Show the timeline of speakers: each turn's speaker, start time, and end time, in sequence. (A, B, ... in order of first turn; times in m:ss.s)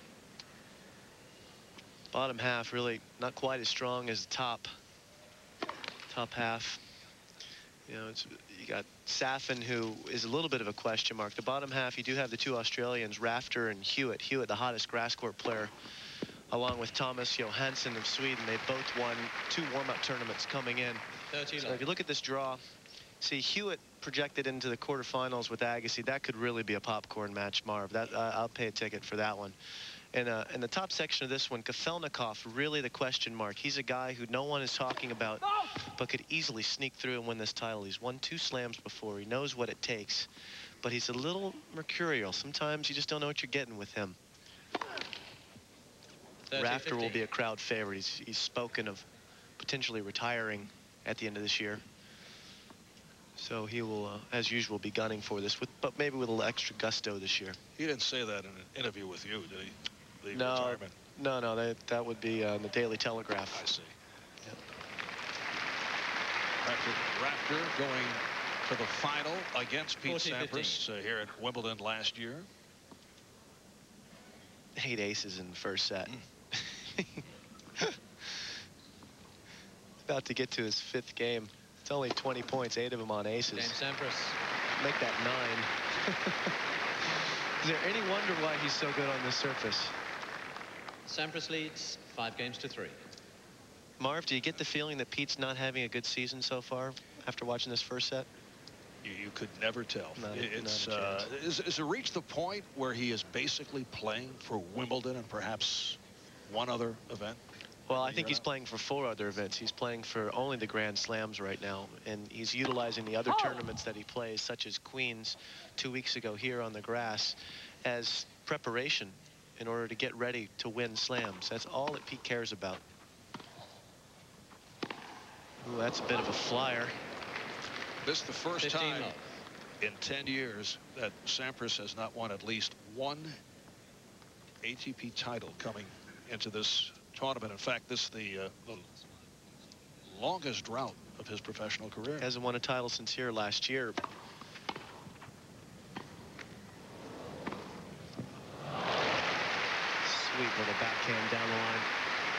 0:02.1-0:04.8 A
0:06.1-0:06.8 A
0:07.9-0:15.7 A
0:16.5-0:21.0 A
0:21.3-0:21.9 B
0:21.6-0:22.6 A
0:23.2-0:29.6 A
0:30.1-0:35.4 A
0:36.0-0:40.3 A
0:40.8-0:44.2 A
0:46.5-0:47.3 B
0:46.5-0:49.1 A
0:49.6-0:51.8 A
0:53.4-0:57.6 A
0:57.8-1:01.0 C
1:00.3-1:03.6 A
1:03.5-1:03.9 C
1:06.6-1:12.5 C
1:10.0-1:10.9 B
1:14.8-1:17.2 A
1:17.8-1:18.5 A
1:20.0-1:23.8 A
1:23.5-1:24.4 B
1:24.8-1:26.5 A
1:27.6-1:30.0 A
1:31.1-1:33.0 B
1:34.0-1:38.3 A
1:39.0-1:48.4 C
1:40.2-1:41.3 A
1:47.9-2:02.8 A
2:05.6-2:07.0 A
2:08.0-2:09.2 C
2:08.6-2:09.2 B
2:09.8-2:13.4 C
2:14.6-2:18.9 C
2:20.1-2:22.3 C
2:22.2-2:24.0 A
2:30.0-2:31.9 A